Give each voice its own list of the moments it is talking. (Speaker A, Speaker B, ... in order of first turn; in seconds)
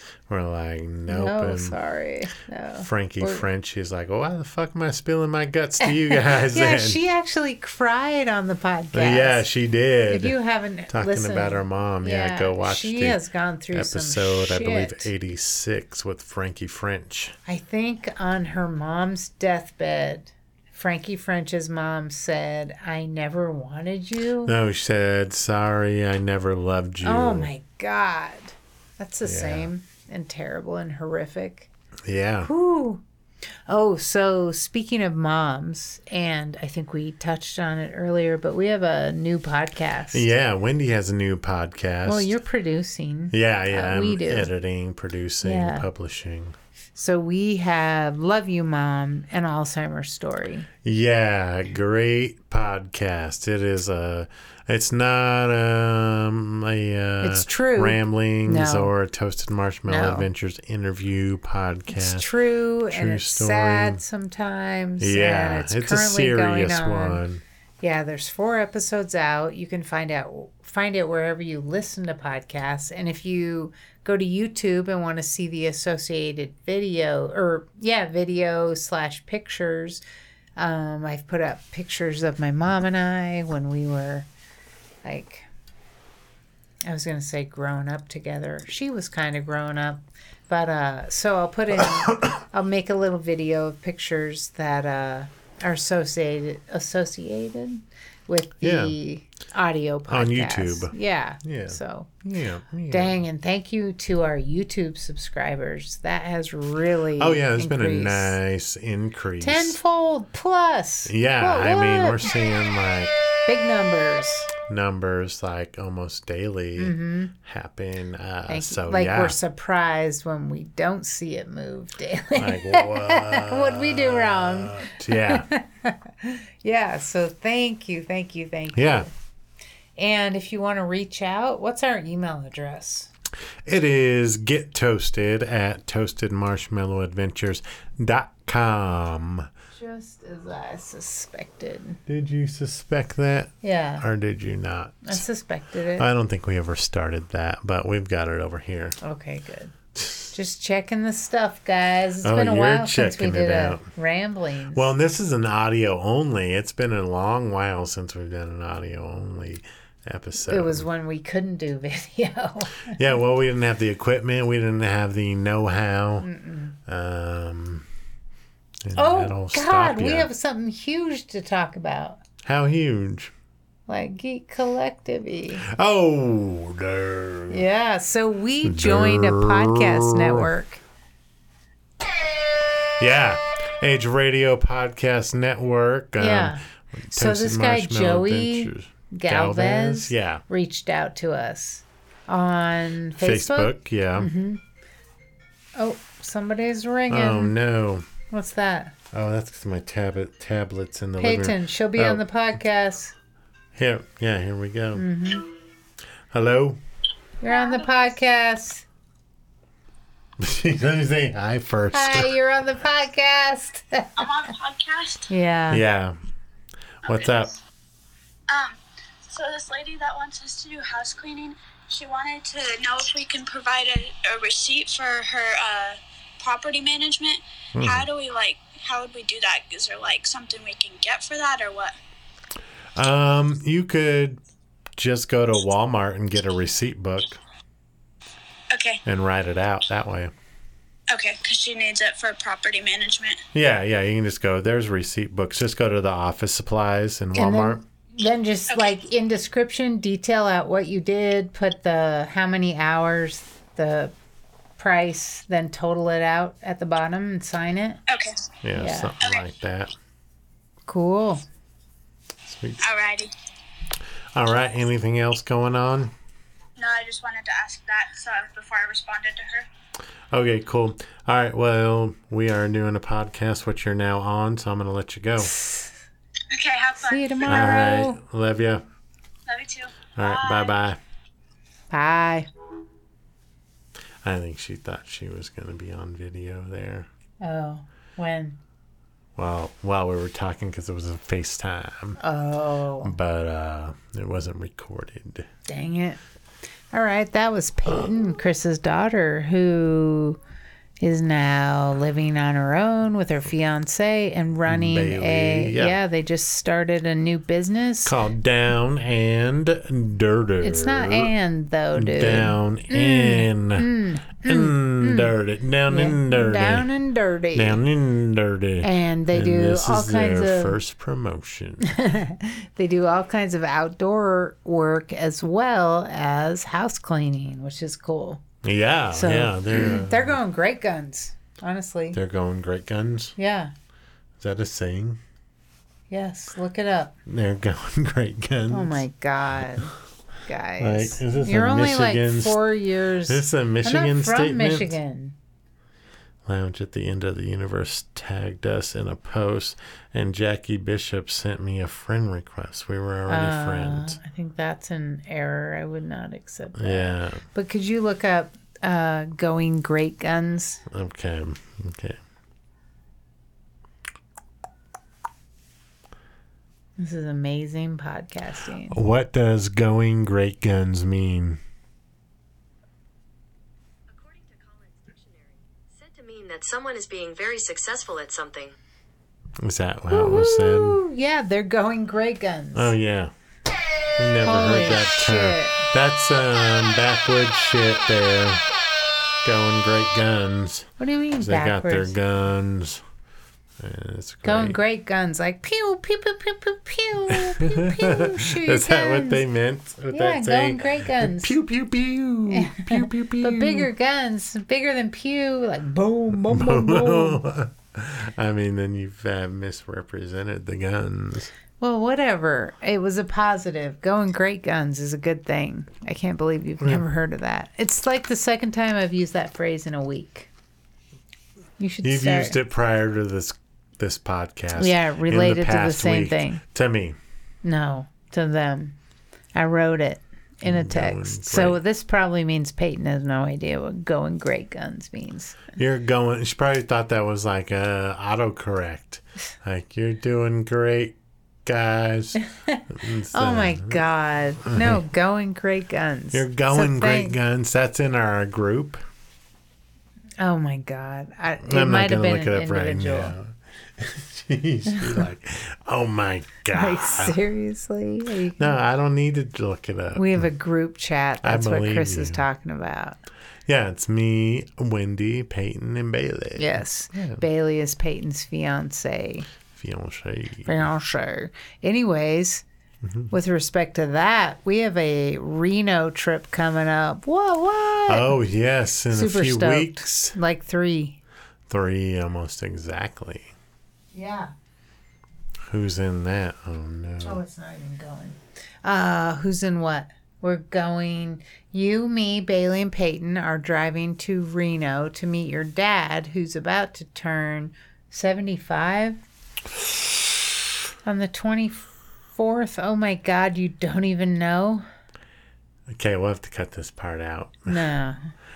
Speaker A: 0.3-1.8, 2.8-7.0, 8.9-10.4, 10.9-13.2, 13.7-17.4, 24.4-27.5, 29.2-29.7, 32.0-32.5, 40.1-42.3, 43.3-46.6, 50.8-62.3, 62.9-64.0, 65.0-67.4, 98.6-99.0, 100.1-103.2, 107.2-109.8, 111.0-113.1, 114.6-119.4, 122.3-125.5, 128.7-129.1, 133.6-139.5, 142.1-145.2, 145.9-149.0, 149.9-150.3, 152.2-153.9, 154.7-160.8, 162.9-166.3, 166.8-167.8, 168.8-170.3, 172.4-173.3, 175.6-177.6, 178.6-180.5, 183.0-190.4, 193.2-194.3, 197.1-198.1, 199.1-202.2, 203.7-205.1, 206.3-206.8, 210.4-212.3, 215.7-216.2, 217.0-217.5, 227.7-228.1, 232.9-234.4, 235.0-237.4, 239.0-240.3, 243.5-247.8, 258.6-259.9, 262.4-262.8, 264.3-266.1, 270.3-275.5, 277.4-278.8, 280.1-281.0, 284.2-287.1, 289.4-292.2, 293.0-295.5, 304.6-306.0, 308.0-311.3, 311.9-313.9, 314.4-316.9, 317.5-321.9, 328.6-330.4, 332.1-333.4, 334.4-335.2, 337.2-339.0, 340.8-342.6, 343.3-345.0, 346.4-354.2, 356.8-357.4, 360.9-362.2, 368.9-371.6, 379.6-381.0, 382.7-383.3, 384.2-388.6, 389.4-393.0, 393.8-394.8, 397.3-403.9, 406.4-411.5, 422.0-427.2, 430.6-431.8, 435.8-442.4, 442.9-444.0, 444.6-445.0, 446.3-449.0, 451.6-457.4, 458.6-460.5, 461.4-462.4, 463.6-467.4, 469.7-470.9, 473.0-473.3, 478.1-480.4, 481.7-483.5, 485.7-487.4, 505.9-507.8
Speaker B: 1.1-3.4, 5.8-9.4, 10.1-15.1, 17.4-24.5, 27.0-31.7, 32.4-33.0, 33.7-40.2, 42.0-44.5, 45.4-45.9, 46.9-50.7, 57.2-58.9, 59.9-60.3, 61.9-67.2, 67.8-80.0, 80.6-84.3, 85.0-85.5, 86.8-102.2, 102.9-108.4, 109.4-112.3, 113.5-114.5, 116.8-117.3, 118.5-129.1, 130.0-133.1, 139.7-142.0, 143.6-144.0, 145.0-146.1, 149.0-149.7, 150.3-154.8, 160.4-163.0, 166.2-166.8, 168.9-172.2, 173.9-175.7, 177.5-180.8, 186.2-194.6, 195.8-197.6, 198.3-198.9, 201.2-203.1, 204.9-205.4, 207.4-208.8, 211.9-214.3, 215.3-215.8, 247.3-254.1, 254.8-258.0, 258.7-259.1, 260.9-261.4, 277.0-278.2, 281.9-282.5, 287.4-288.6, 292.2-293.1, 295.7-296.2, 296.9-300.4, 301.0-308.1, 310.6-315.3, 315.9-317.8, 318.8-320.8, 321.8-328.4, 329.1-332.2, 333.4-333.7, 336.1-337.1, 338.7-339.9, 340.4-345.4, 353.3-360.8, 367.0-369.0, 380.1-382.9, 384.4-385.8, 391.0-392.1, 394.4-399.4, 400.1-401.6, 402.5-407.4, 411.8-420.5, 421.8-422.6, 424.7-426.6, 427.6-429.0, 429.5-435.7, 442.7-447.4, 450.4-453.4, 456.7-458.8, 460.1-463.2, 466.6-469.5, 470.6-472.6, 473.3-478.3, 479.1-481.2, 484.1-484.5, 487.2-499.2, 501.0-504.8, 507.7-508.3
Speaker C: 207.5-208.0, 214.2-215.3, 217.1-217.4, 218.5-231.9, 238.7-239.0, 241.1-243.4, 258.1-258.4, 262.8-263.3, 266.8-269.7, 276.5-277.6, 279.5-280.7
Speaker D: 374.1-378.7